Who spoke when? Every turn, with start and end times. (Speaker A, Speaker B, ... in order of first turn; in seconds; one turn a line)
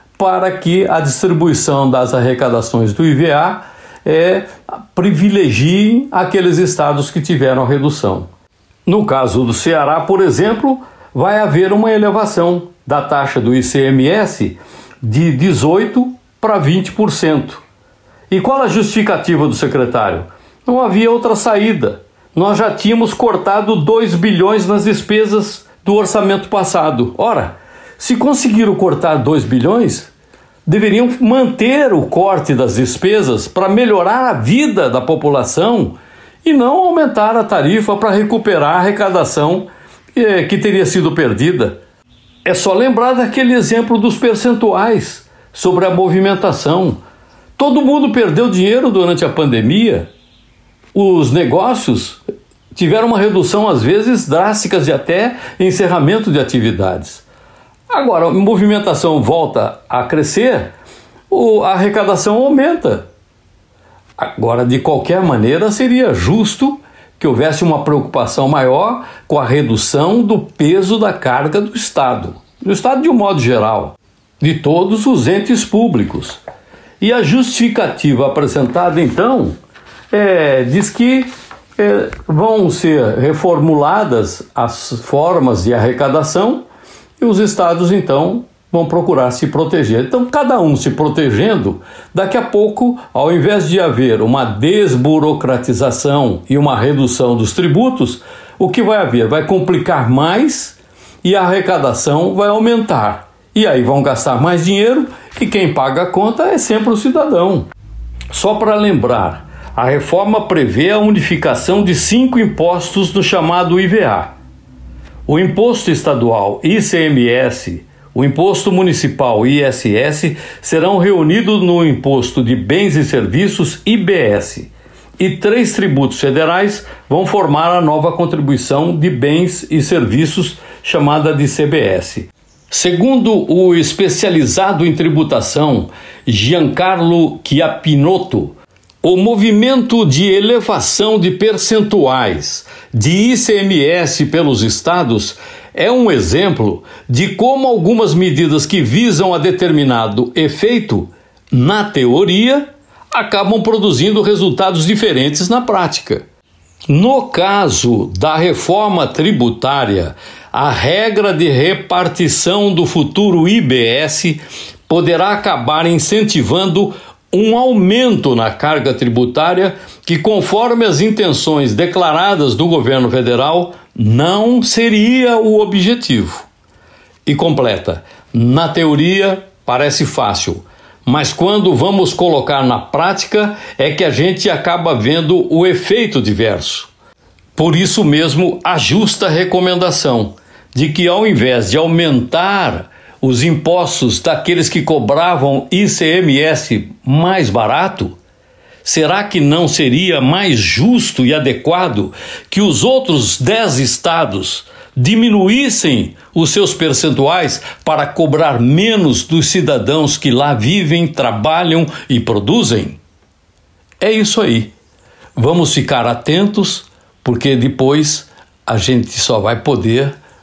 Speaker A: 0.2-8.3
Speaker A: 8.8-17.6
Speaker A: 18.3-30.1
Speaker A: 30.6-41.8
Speaker A: 42.4-47.0
Speaker A: 47.6-50.1
Speaker A: 50.9-52.2
Speaker A: 52.7-57.2
Speaker A: 57.9-60.7
Speaker A: 61.3-63.0
Speaker A: 64.2-76.4
Speaker A: 77.0-79.5
Speaker A: 80.1-86.7
Speaker A: 87.2-107.7
Speaker A: 108.3-114.3
Speaker A: 115.3-156.2
Speaker A: 156.9-176.5
Speaker A: 177.2-186.9
Speaker A: 187.6-198.2
Speaker A: 198.8-213.0
Speaker A: 214.0-214.7
Speaker A: 215.3-220.2